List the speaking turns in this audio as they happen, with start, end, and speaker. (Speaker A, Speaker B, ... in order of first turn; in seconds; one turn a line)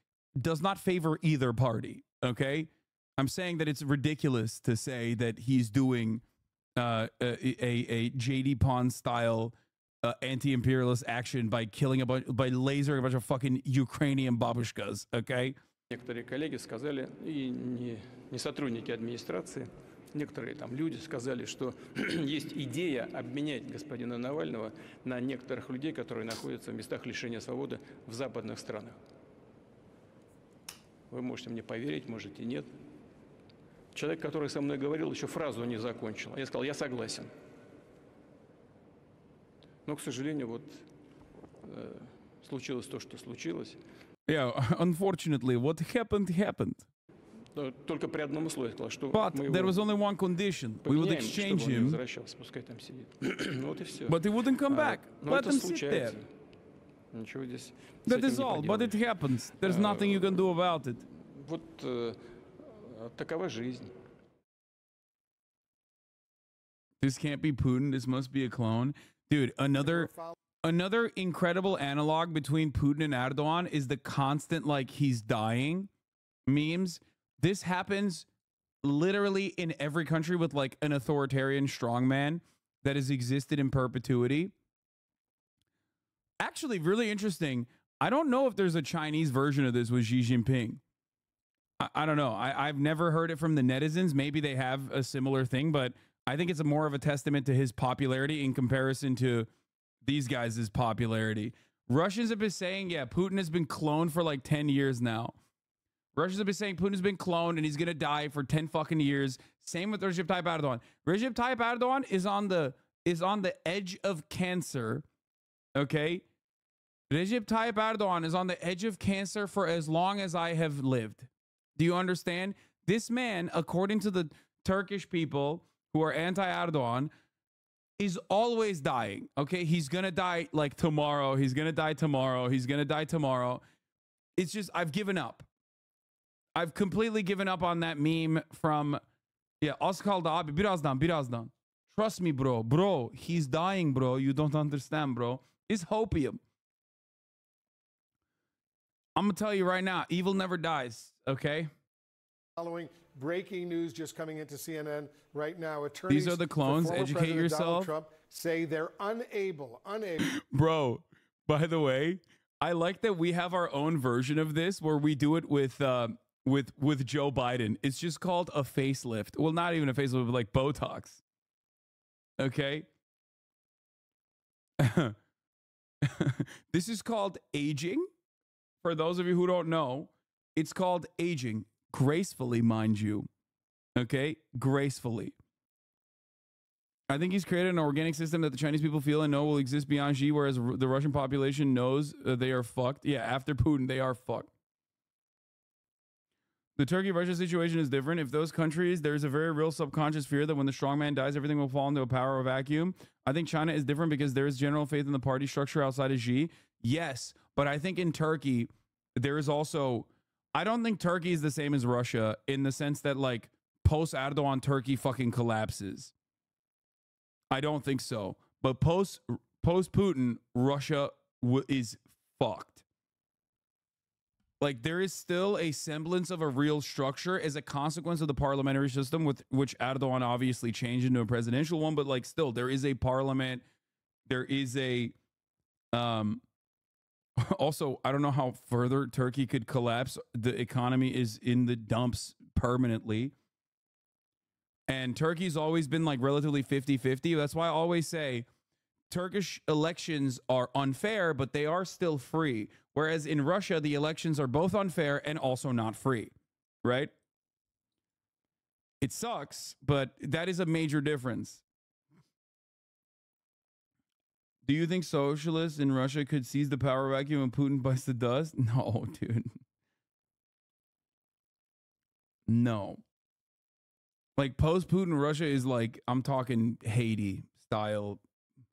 Speaker A: 0.4-6.2
Speaker A: 6.8-15.6
Speaker B: 15.9-29.0
Speaker B: 31.1-32.7
Speaker B: 33.9-37.3
Speaker B: 39.9-40.9
Speaker B: 41.6-43.8
Speaker A: 44.3-46.9
Speaker B: 47.5-49.8
Speaker A: 49.1-52.0
Speaker B: 50.8-56.3
Speaker A: 54.1-56.2
Speaker B: 57.1-59.0
Speaker A: 58.1-61.0
Speaker B: 59.6-60.5
Speaker B: 61.2-63.9
Speaker A: 67.0-70.1
Speaker C: 69.8-70.4
Speaker A: 70.6-75.9
Speaker A: 76.5-78.3
Speaker A: 78.8-84.5
Speaker A: 86.4-90.8
Speaker A: 91.8-99.5
Speaker A: 100.0-105.3
Speaker A: 106.2-115.0
Speaker A: 115.8-116.2
Speaker A: 117.1-127.1
Speaker A: 128.0-133.6
Speaker A: 134.4-135.5
Speaker A: 136.6-139.0
Speaker A: 139.6-146.4
Speaker A: 149.2-151.7
Speaker C: 152.6-160.2
Speaker A: 156.1-157.9
Speaker A: 160.4-171.2
Speaker A: 172.4-172.9
Speaker A: 174.8-175.2
Speaker A: 176.2-178.1
Speaker A: 178.8-183.3
Speaker A: 184.0-185.3
Speaker A: 187.1-194.5
Speaker A: 196.8-216.1
Speaker A: 217.5-222.8
Speaker A: 224.6-233.6
Speaker A: 234.3-235.2
Speaker A: 235.9-236.4
Speaker A: 237.4-243.3
Speaker A: 244.9-248.5
Speaker A: 249.1-256.3
Speaker A: 256.8-257.1
Speaker A: 259.0-261.6
Speaker A: 264.6-269.6
Speaker A: 272.5-273.0
Speaker A: 274.4-278.2